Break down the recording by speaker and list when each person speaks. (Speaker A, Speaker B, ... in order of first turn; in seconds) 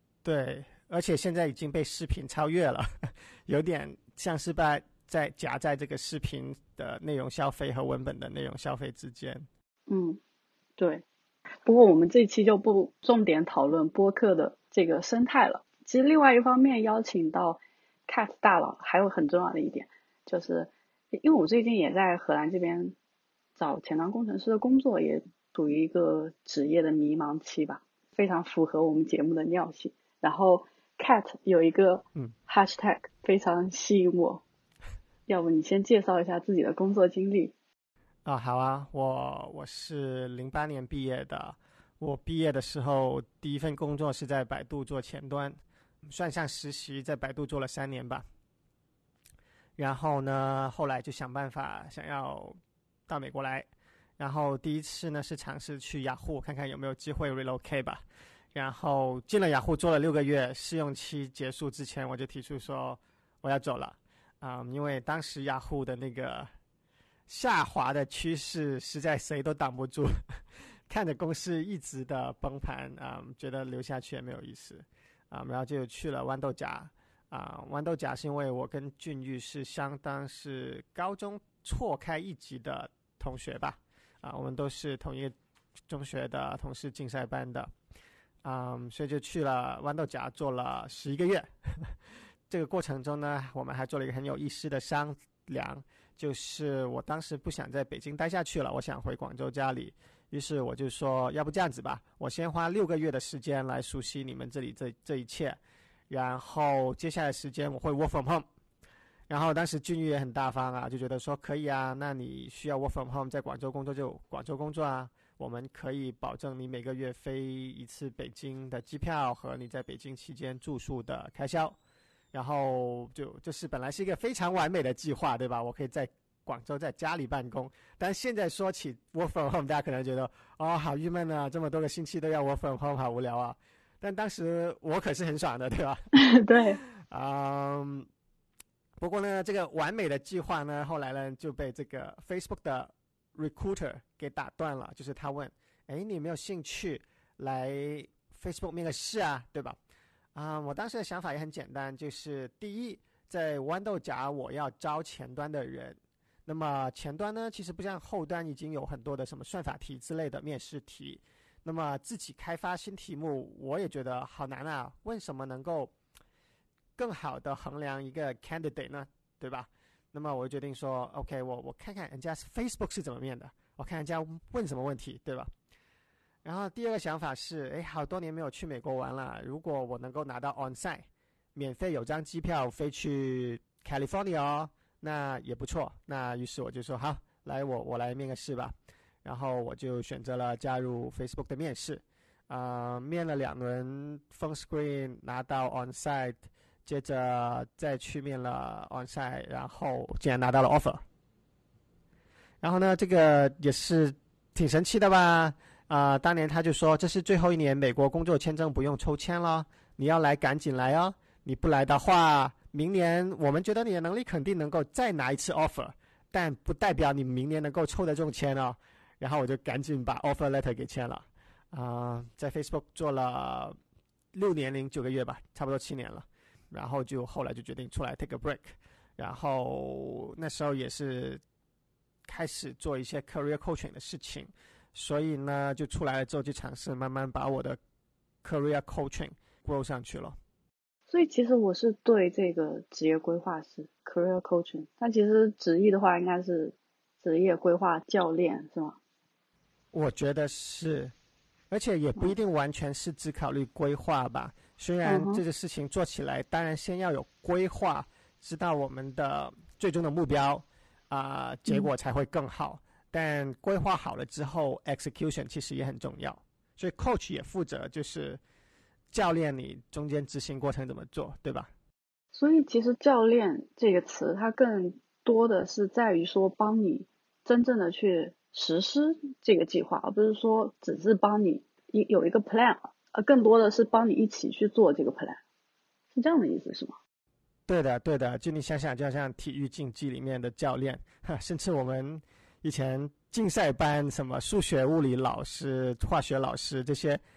Speaker A: 0.2-9.5, 38.2-48.2, 49.8-53.7, 54.2-58.0, 58.5-66.5, 67.3-70.2, 70.9-85.3, 85.9-87.7, 88.4-92.0, 92.5-105.6, 106.1-108.5, 109.3-121.8, 122.3-136.0, 136.9-138.1, 139.0-149.8, 150.3-165.9, 167.0-175.5, 176.4-201.0, 202.6-223.8, 224.3-231.4, 232.2-237.8, 238.4-240.4, 249.9-251.1, 251.7-268.4, 269.1-271.7, 287.7-297.2
Speaker B: 9.9-10.2, 10.8-11.0, 11.6-22.9, 23.6-34.4, 35.3-37.5, 136.2-136.8, 241.1-249.0, 255.0-255.4, 272.3-285.4, 286.1-287.0